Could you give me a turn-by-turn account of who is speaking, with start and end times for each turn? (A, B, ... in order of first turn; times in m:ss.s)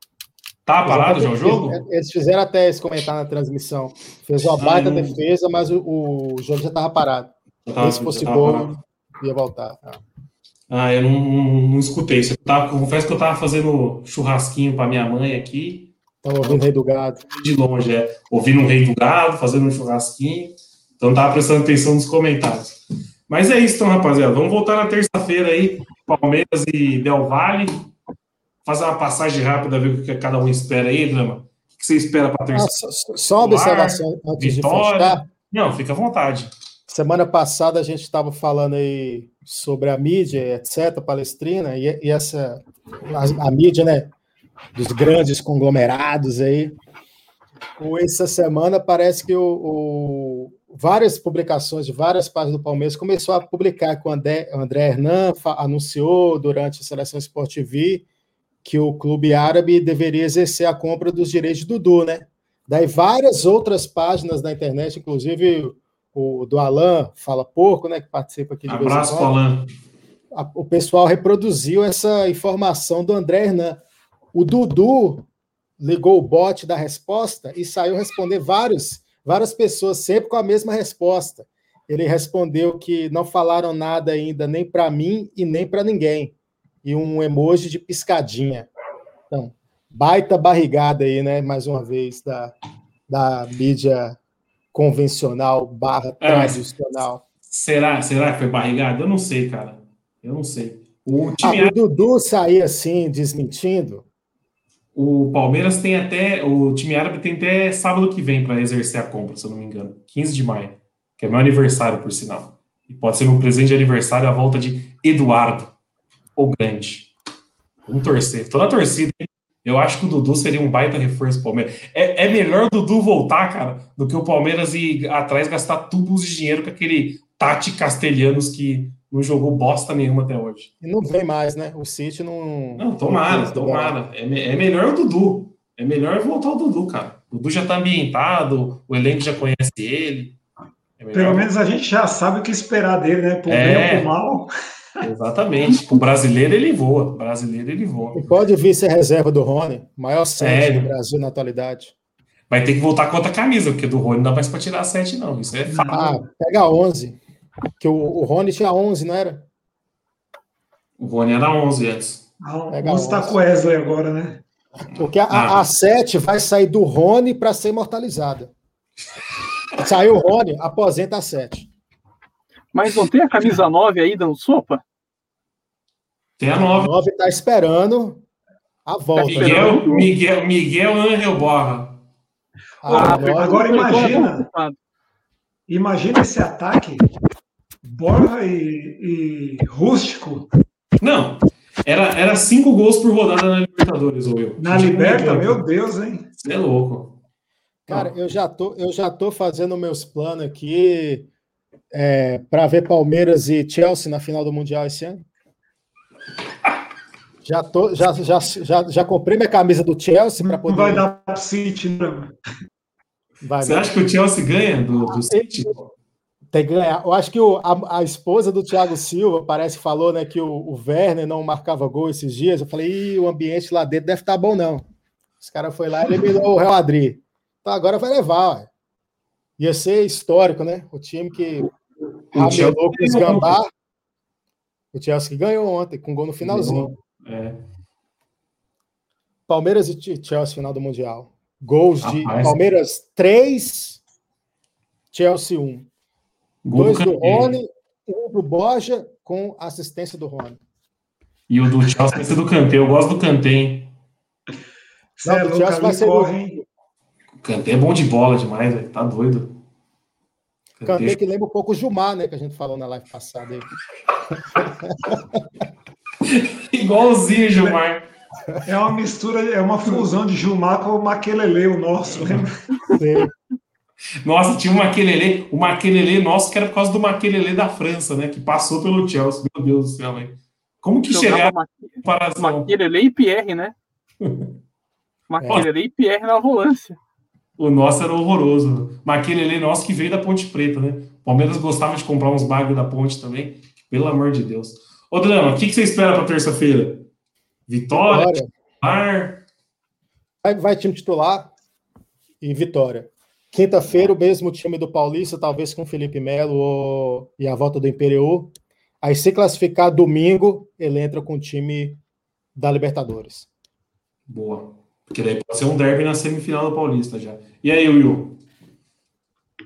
0:00.7-0:01.8 A
0:00.8-0:10.0 B
0:04.6-0:05.2 A
0:07.7-0:08.7 A
0:10.7-0:15.9 A
0:16.2-0:17.2 B
0:17.2-0:27.9 A
0:28.6-0:32.8 A
0:32.5-0:35.2 B
0:33.4-0:36.5 A
0:36.9-0:44.1 B
0:44.8-0:46.8 B
0:47.8-0:58.0 B
0:58.6-1:09.3 B
1:08.7-1:09.7 A
1:10.3-1:13.8 B
1:14.3-1:15.3 B
1:15.8-1:28.7 B
1:29.3-1:32.6 B
1:33.1-1:34.2 B
1:34.7-1:37.2 B
1:36.2-1:36.6 A
1:37.5-1:41.8 A
1:41.4-1:44.1 B
1:45.0-1:55.7 A
1:56.4-1:57.1 A
1:57.9-2:10.7 A
2:10.8-2:14.0 B
2:12.8-2:20.4 A
2:21.0-2:21.5 A
2:21.1-2:24.5 C
2:23.5-2:24.1 A
2:25.0-2:28.3 A
2:28.2-2:31.9 B
2:30.4-2:30.9 A
2:32.5-2:36.0 A
2:35.7-2:36.2 C
2:35.9-2:37.2 B
2:37.8-2:39.5 B
2:41.0-2:42.2 A
2:42.4-2:44.4 C
2:42.7-2:43.4 B
2:44.9-2:48.5 B
2:45.3-2:45.7 A
2:49.8-2:51.7 B
2:52.7-2:54.8 D
2:56.4-2:56.9 A
2:56.5-2:58.2 B
2:58.9-2:59.8 B
2:59.2-3:00.1 D
2:59.2-3:02.0 A
3:02.8-3:04.3 B
3:02.9-3:04.5 C
3:02.9-3:04.8 D
3:05.7-3:07.1 C
3:07.8-3:10.5 C
3:11.0-3:15.7 A
3:14.6-3:16.3 C
3:16.4-3:17.2 A
3:17.9-3:21.3 B
3:21.9-3:25.2 B
3:27.4-3:31.1 B
3:30.4-3:32.3 C
3:33.4-3:33.9 B
3:33.6-3:35.9 A
3:35.1-3:35.8 B
3:36.5-3:44.9 B
3:45.4-3:48.7 B
3:49.6-3:51.7 B
3:52.3-3:53.6 A
3:52.3-3:53.7 B
3:54.9-3:56.9 B
3:56.4-3:57.6 A
3:59.5-4:04.0 B
4:02.0-4:02.6 A
4:05.1-4:05.9 B
4:06.6-4:07.6 A
4:06.8-4:10.6 B
4:11.5-4:13.9 A
4:15.2-4:16.6 C
4:15.2-4:16.4 B
4:17.4-4:19.5 A
4:20.8-4:21.2 A
4:20.8-4:23.7 B
4:24.3-4:25.4 B
4:26.2-4:28.1 A
4:28.6-4:32.5 C
4:33.0-4:33.3 B
4:34.2-4:42.7 A
4:41.1-4:43.8 D
4:44.2-4:44.5 A
4:45.3-4:47.0 D
4:45.4-4:45.7 B
4:47.6-4:57.1 A
4:57.7-4:59.4 A
4:58.0-4:58.5 B
5:00.4-5:01.5 B
5:02.4-5:12.0 B
5:12.6-5:13.5 B
5:14.3-5:18.4 A